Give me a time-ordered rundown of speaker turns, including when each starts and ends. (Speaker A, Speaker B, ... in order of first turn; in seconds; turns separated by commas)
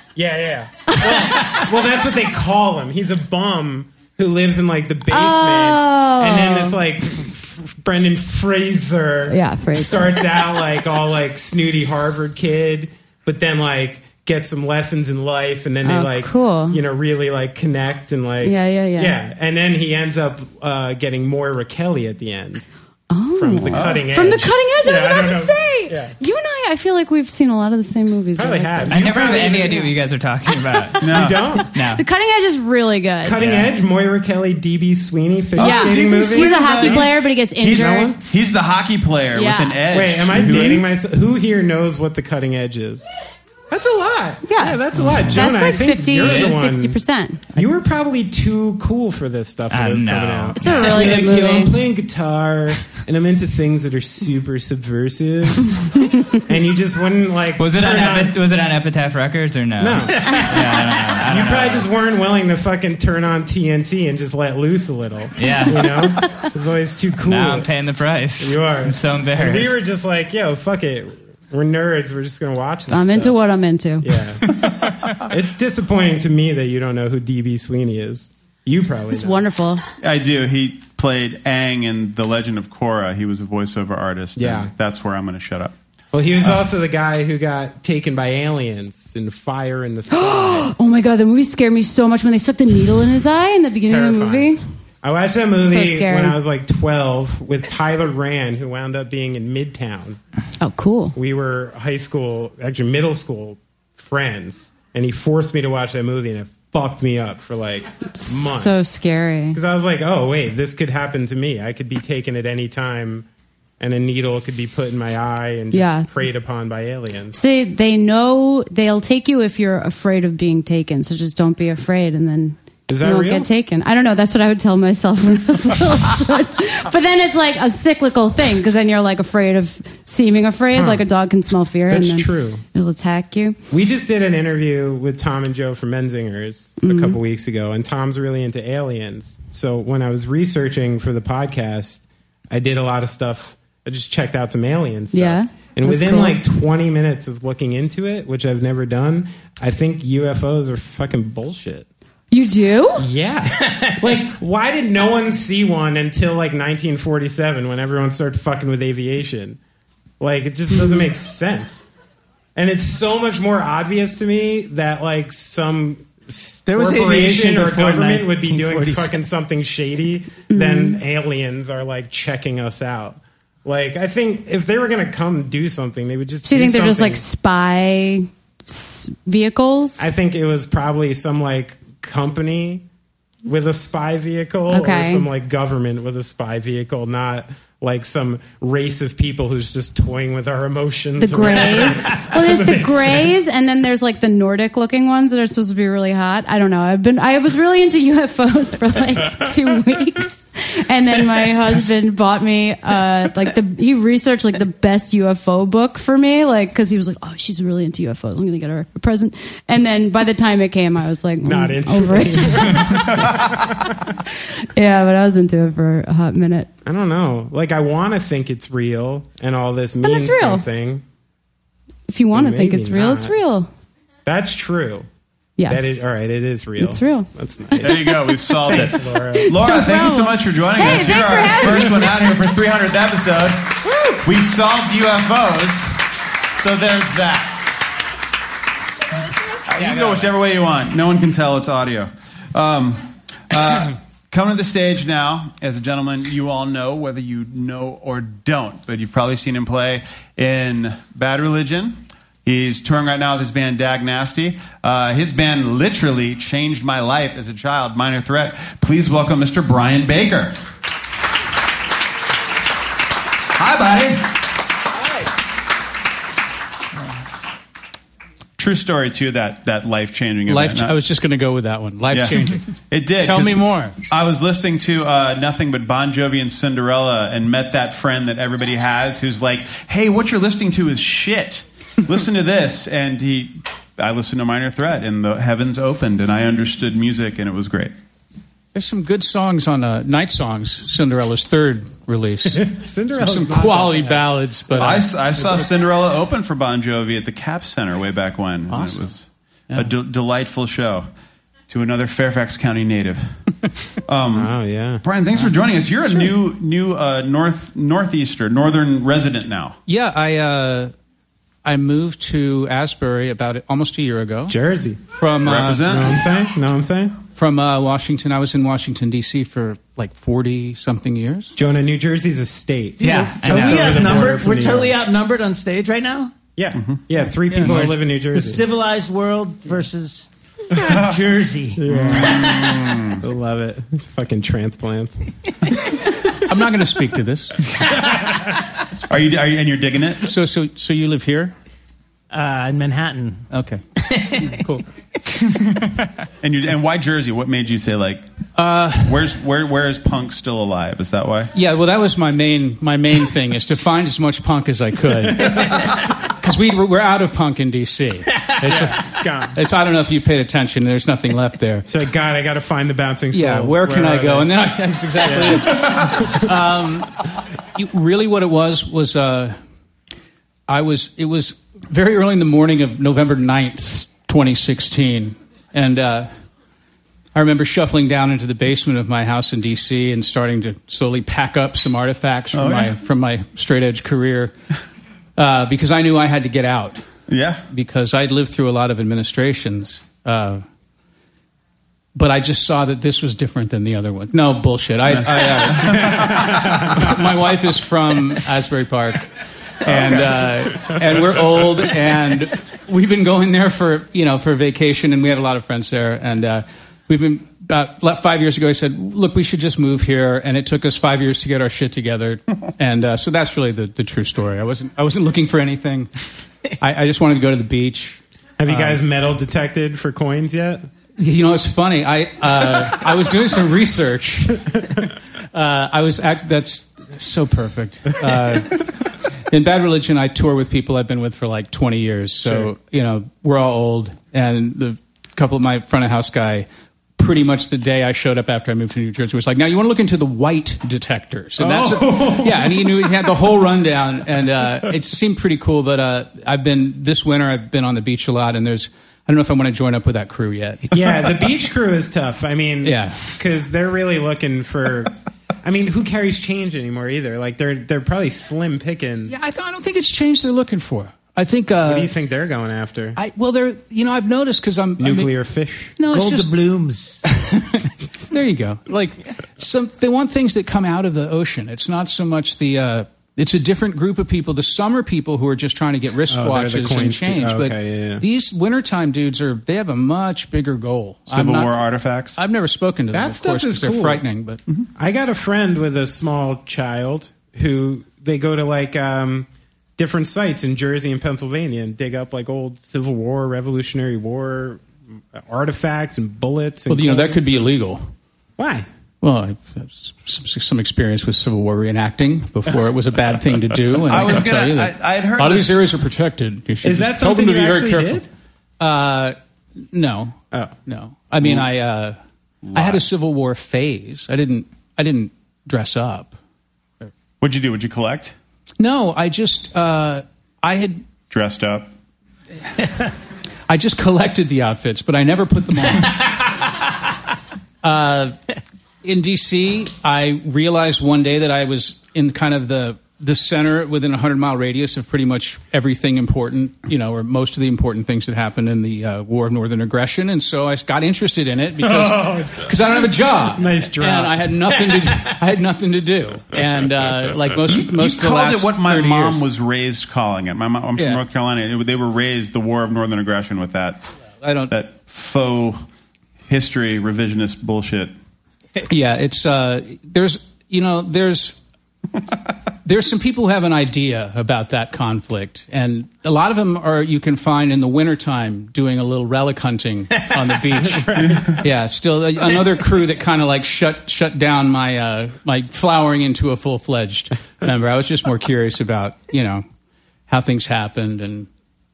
Speaker A: 0.1-22.6, Speaker B: 0.9-1.6, Speaker B: 5.1-6.8, Speaker B: 9.3-10.2, Speaker B: 15.8-16.8, Speaker B: 18.4-19.2, Speaker B: 23.1-29.9, Speaker A: 23.4-26.1, Speaker C: 23.7-24.1, Speaker A: 28.4-29.9, Speaker D: 28.9-32.0, Speaker C: 31.0-31.4, Speaker A: 31.1-31.7, Speaker B: 31.8-33.4, Speaker A: 33.2-38.2, Speaker C: 35.6-40.9, Speaker B: 35.6-38.1, Speaker B: 39.3-39.8, Speaker A: 39.9-43.1, Speaker B: 40.4-40.6, Speaker A: 43.7-47.0, Speaker B: 44.5-47.5, Speaker A: 47.5-58.4, Speaker D: 49.7-50.6, Speaker B: 50.6-51.8, Speaker D: 57.6-61.9, Speaker A: 59.8-67.7, Speaker E: 60.1-60.5, Speaker D: 65.4-66.4, Speaker D: 67.2-69.8, Speaker A: 68.4-73.4, Speaker B: 72.9-74.1, Speaker A: 74.0-79.5, Speaker B: 79.1-79.8, Speaker C: 80.0-85.8, Speaker A: 84.4-84.7, Speaker A: 86.1-90.7, Speaker B: 90.1-94.6, Speaker A: 93.9-100.2, Speaker B: 95.6-96.4, Speaker B: 100.6-101.2, Speaker A: 101.2-108.8, Speaker B: 108.2-109.6, Speaker A: 109.5-113.3, Speaker A: 113.8-117.4, Speaker B: 115.7-116.1, Speaker B: 117.3-133.6, Speaker A: 122.9-123.5, Speaker A: 130.7-131.1, Speaker A: 131.9-132.6, Speaker A: 133.7-151.9, Speaker B: 136.8-137.2, Speaker B: 145.1-146.4, Speaker B: 152.3-153.1, Speaker A: 153.0-159.6, Speaker A: 160.2-161.9, Speaker B: 160.7-161.1, Speaker A: 162.6-177.2, Speaker E: 166.7-169.2, Speaker B: 170.5-171.0, Speaker B: 176.4-180.1, Speaker A: 180.0-182.9, Speaker A: 183.4-193.3, Speaker B: 184.7-185.3, Speaker B: 191.2-213.6, Speaker A: 211.4-214.0, Speaker B: 214.7-216.7, Speaker A: 216.8-221.0, Speaker B: 220.0-220.7, Speaker B: 222.1-223.7, Speaker A: 222.3-223.4, Speaker A: 224.3-225.1, Speaker B: 225.6-226.1, Speaker A: 225.7-229.6, Speaker B: 226.8-232.3, Speaker C: 227.8-236.0, Speaker C: 236.5-237.7, Speaker C: 239.7-260.6, Speaker C: 263.5-264.4, Speaker C: 268.6-271.0, Speaker F: 270.5-274.0, Speaker C: 272.1-287.9, Speaker F: 288.7-295.1, Speaker A: 292.5-294.3, Speaker C: 294.7-301.1, Speaker F: 298.7-299.1, Speaker C: 301.7-303.4, Speaker C: 304.1-309.8, Speaker A: 304.3-305.0, Speaker F: 309.9-310.9, Speaker F: 311.6-314.6, Speaker A: 314.5-315.1, Speaker F: 315.1-315.9, Speaker C: 315.4-316.2, Speaker A: 315.8-317.2, Speaker F: 317.3-321.6, Speaker A: 321.6-325.0, Speaker D: 323.0-324.1, Speaker E: 323.0-326.4, Speaker A: 326.6-328.6, Speaker C: 326.7-327.0, Speaker F: 327.5-327.9, Speaker E: 327.6-332.8, Speaker C: 330.8-331.2, Speaker A: 331.8-332.6, Speaker C: 331.9-333.2, Speaker A: 333.2-335.2, Speaker F: 336.4-337.8, Speaker C: 339.1-340.3, Speaker F: 340.2-341.5, Speaker E: 342.3-343.5, Speaker F: 343.5-344.9, Speaker E: 344.0-344.6, Speaker C: 346.4-348.2, Speaker F: 348.6-349.3, Speaker C: 349.0-351.5, Speaker F: 351.5-361.9, Speaker A: 358.6-359.6, Speaker A: 361.9-364.5, Speaker F: 363.3-369.6, Speaker A: 365.2-366.5, Speaker F: 370.7-376.3, Speaker F: 377.4-384.5, Speaker C: 382.5-383.0, Speaker F: 385.4-387.1, Speaker C: 387.3-387.6, Speaker F: 387.7-390.6, Speaker F: 392.1-399.3, Speaker C: 395.1-397.0, Speaker A: 396.5-396.8, Speaker F: 399.8-416.2, Speaker F: 416.8-419.0, Speaker A: 418.6-420.9, Speaker F: 421.2-428.9, Speaker F: 429.5-451.0, Speaker A: 441.6-443.4, Speaker A: 450.9-459.4, Speaker F: 452.8-453.4, Speaker F: 459.3-462.1, Speaker A: 461.9-463.2, Speaker F: 463.1-465.4, Speaker A: 465.0-466.0, Speaker F: 466.0-466.5, Speaker E: 466.0-467.3, Speaker F: 467.3-481.8, Speaker A: 476.3-478.2, Speaker C: 481.3-482.4, Speaker F: 482.4-484.6, Speaker A: 483.1-484.2, Speaker A: 485.0-497.5, Speaker F: 496.9-498.1, Speaker A: 498.6-498.9, Speaker F: 499.2-508.2, Speaker C: 504.0-505.9, Speaker A: 506.8-508.3, Speaker F: 508.8-509.4, Speaker F: 509.9-512.2, Speaker A: 510.5-510.8, Speaker C: 511.4-511.7, Speaker C: 512.6-513.0, Speaker F: 512.7-516.4, Speaker C: 517.4-518.4, Speaker F: 518.8-521.1, Speaker C: 521.3-521.9, Speaker F: 523.7-526.3, Speaker F: 527.8-528.4, Speaker F: 529.0-549.5, Speaker A: 541.8-544.7, Speaker C: 547.8-554.1, Speaker F: 551.0-551.2, Speaker F: 554.4-554.7, Speaker C: 554.7-555.9, Speaker C: 556.5-558.1, Speaker F: 558.8-561.6, Speaker F: 562.9-579.6, Speaker A: 570.8-571.6, Speaker C: 571.2-571.6, Speaker F: 580.3-581.5